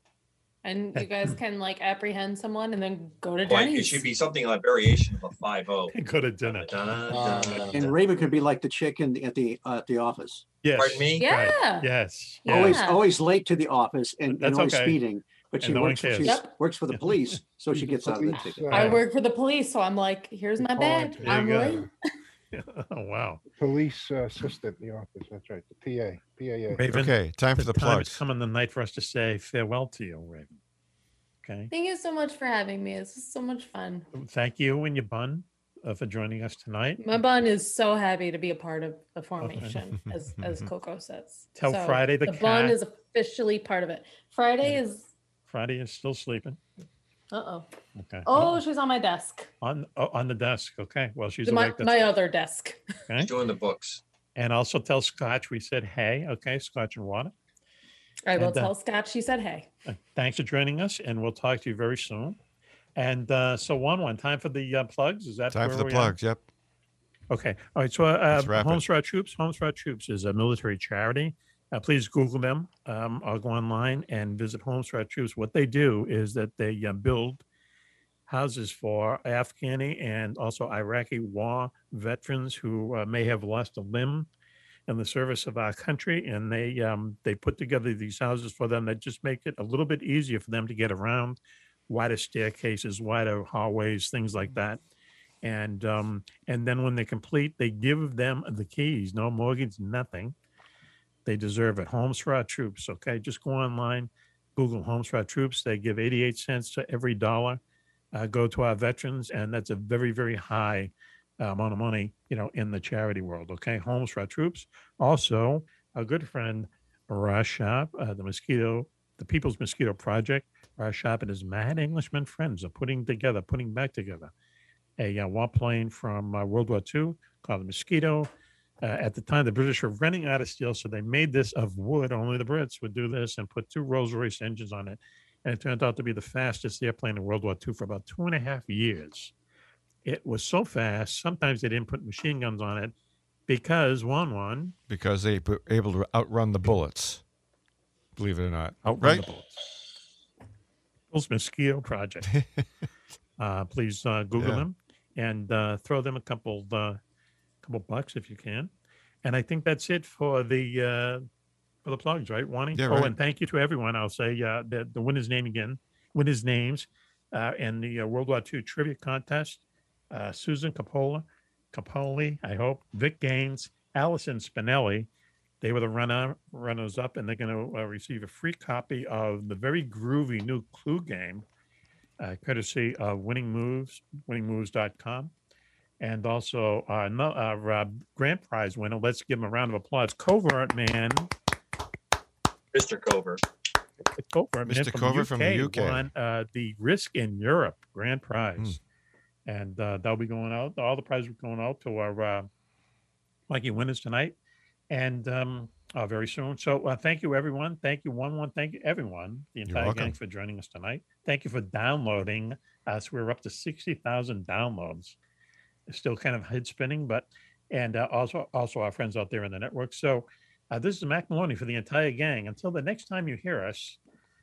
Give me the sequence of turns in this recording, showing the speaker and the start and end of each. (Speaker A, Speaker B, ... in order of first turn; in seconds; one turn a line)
Speaker A: 0.6-4.1
Speaker B: 0.9-1.3
Speaker C: 3.4-5.9
Speaker B: 5.9-6.7
Speaker C: 6.5-8.0
Speaker D: 7.1-7.9
Speaker E: 7.7-10.4
Speaker B: 10.6-12.8
Speaker C: 10.8-11.2
Speaker A: 11.2-11.9
Speaker A: 12.4-13.0
Speaker E: 12.5-18.9
Speaker B: 14.3-15.0
Speaker B: 15.6-16.4
Speaker A: 16.2-16.5
Speaker B: 16.9-17.4
Speaker D: 17.7-19.0
Speaker A: 18.3-21.9
Speaker B: 18.7-19.0
Speaker D: 20.6-21.9
Speaker B: 21.2-21.8
Speaker B: 22.5-23.4
Speaker D: 23.6-26.9
Speaker B: 26.7-30.6
Speaker F: 26.9-28.2
Speaker B: 31.4-31.7
Speaker A: 31.7-34.1
Speaker B: 34.1-37.0
Speaker A: 37.0-45.1
Speaker B: 39.4-39.8
Speaker B: 41.5-42.8
Speaker B: 45.5-46.6
Speaker A: 47.3-47.7
Speaker B: 47.9-48.6
Speaker A: 48.2-49.5
Speaker B: 49.6-52.1
Speaker A: 51.4-52.8
Speaker C: 53.2-54.0
Speaker B: 54.4-57.3
Speaker A: 58.3-59.7
Speaker B: 58.4-58.7
Speaker B: 59.9-62.4
Speaker B: 63.0-66.2
Speaker F: 65.5-66.5
Speaker B: 67.3-77.4
Speaker F: 68.3-68.8
Speaker B: 78.3-84.3
Speaker B: 84.9-94.8
Speaker B: 95.4-100.3
Speaker B: 101.2-107.6
Speaker B: 108.1-124.3
Speaker B: 125.0-128.3
Speaker B: 128.8-139.3
Speaker B: 140.0-142.9
Speaker B: 143.5-144.7
Speaker F: 144.9-147.2
Speaker F: 148.2-149.2
Speaker B: 148.8-149.6
Speaker B: 151.1-152.3
Speaker B: 153.4-157.0
Speaker F: 154.3-154.6
Speaker B: 157.6-158.7
Speaker B: 159.2-161.2
Speaker B: 161.8-175.1
Speaker F: 162.7-163.2
Speaker B: 175.6-181.4
Speaker B: 182.2-185.3
Speaker B: 186.0-191.3
Speaker C: 192.7-193.4
Speaker B: 194.1-198.8
Speaker F: 194.6-196.1
Speaker B: 199.4-202.5
Speaker B: 203.5-204.3
Speaker B: 204.9-215.2
Speaker F: 209.7-210.2
Speaker B: 215.9-224.0